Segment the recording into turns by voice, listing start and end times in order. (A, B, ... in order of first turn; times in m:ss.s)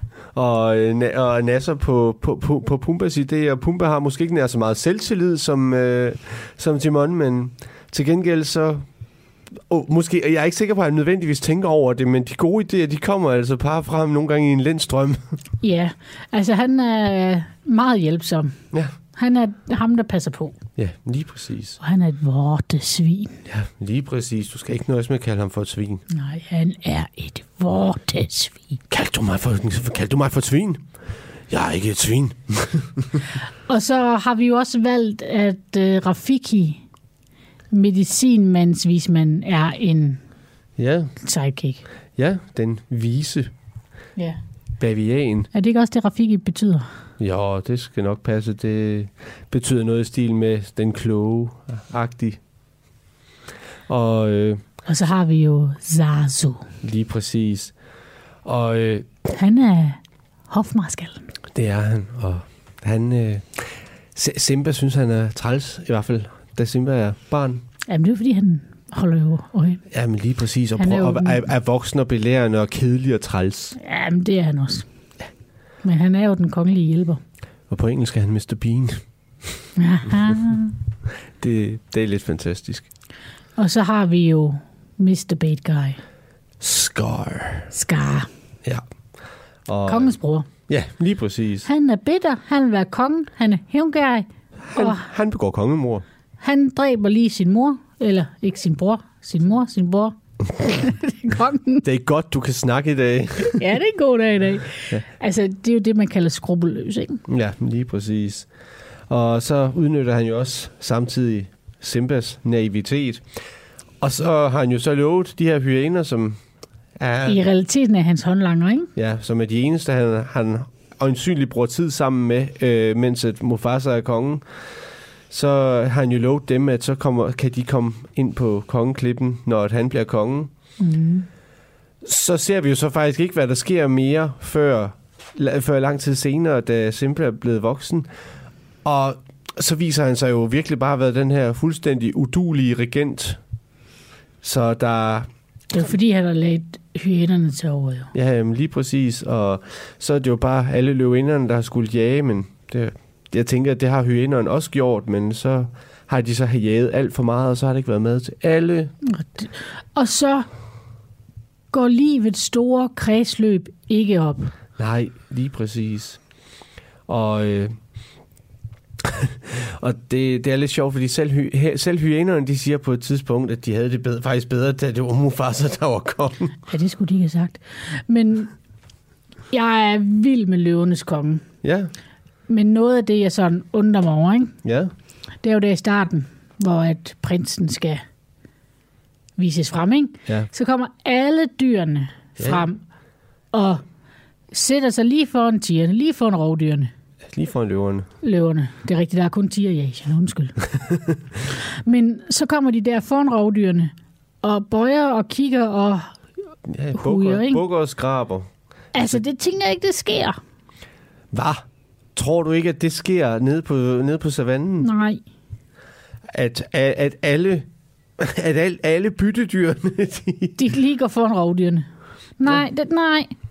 0:00.3-0:15.4 A
0:15.6-0:20.6 B
0:20.8-0:21.8 A
0:21.8-0:23.4 B
0:23.5-0:26.0 A
0:26.1-0:28.8 B
0:28.9-0:33.1 A
0:33.7-0:36.8 B
0:37.7-0:40.2 B
0:40.8-0:41.2 A
0:41.2-0:41.8 B
0:42.2-0:43.5 A
0:44.8-0:45.5 A
0:45.5-0:46.9 B
0:47.2-0:52.4 A
0:53.9-0:54.6 A
0:54.9-0:56.7 B
0:56.8-0:57.8 A
0:58.4-0:59.2 A
0:59.4-1:01.3 B
1:01.5-1:07.6 A
1:07.9-1:09.8 B
1:09.9-1:13.8 A
1:10.8-1:11.4 B
1:13.8-1:14.9 B
1:15.8-1:17.2 B
1:17.7-1:19.6 A
1:19.8-1:20.7 B
1:21.4-1:22.9 A
1:23.6-1:26.0 B
1:26.6-1:27.7 A
1:27.7-1:28.3 B
1:28.6-1:31.7 A
1:29.9-1:30.5 B
1:31.6-1:35.1 B
1:34.6-1:36.0 A
1:36.4-1:40.2 B
1:40.7-1:41.8 B
1:41.8-1:43.6 A
1:43.5-1:47.2 B
1:47.3-1:48.5 A
1:49.1-1:53.4 A
1:54.0-1:56.4 A
1:57.0-1:57.4 A
1:57.3-1:58.9 B
1:59.0-2:10.5 A
2:10.8-2:11.3 B
2:12.0-2:18.1 A
2:18.8-2:23.4 A
2:24.4-2:25.3 A
2:25.7-2:28.1 B
2:28.1-2:39.0 A
2:39.1-2:40.5 B
2:41.7-2:44.5 B
2:44.8-2:46.2 A
2:47.1-2:47.8 A
2:49.5-2:56.6 A
2:56.7-2:58.6 B
2:59.5-3:01.5 B
3:01.6-3:01.9 A
3:02.5-3:04.6 B
3:04.6-3:04.9 A
3:05.4-3:08.0 B
3:09.4-3:12.8 B
3:12.4-3:12.7 A
3:13.5-3:13.8 B
3:14.5-3:16.9 B
3:17.3-3:18.1 A
3:18.2-3:20.8 B
3:21.8-3:26.2 B
3:26.7-3:29.2 A
3:26.9-3:27.6 B
3:28.9-3:30.4 B
3:31.3-3:34.9 A
3:34.8-3:35.2 B
3:36.3-3:37.7 A
3:38.2-3:40.6 A
3:40.6-3:43.3 B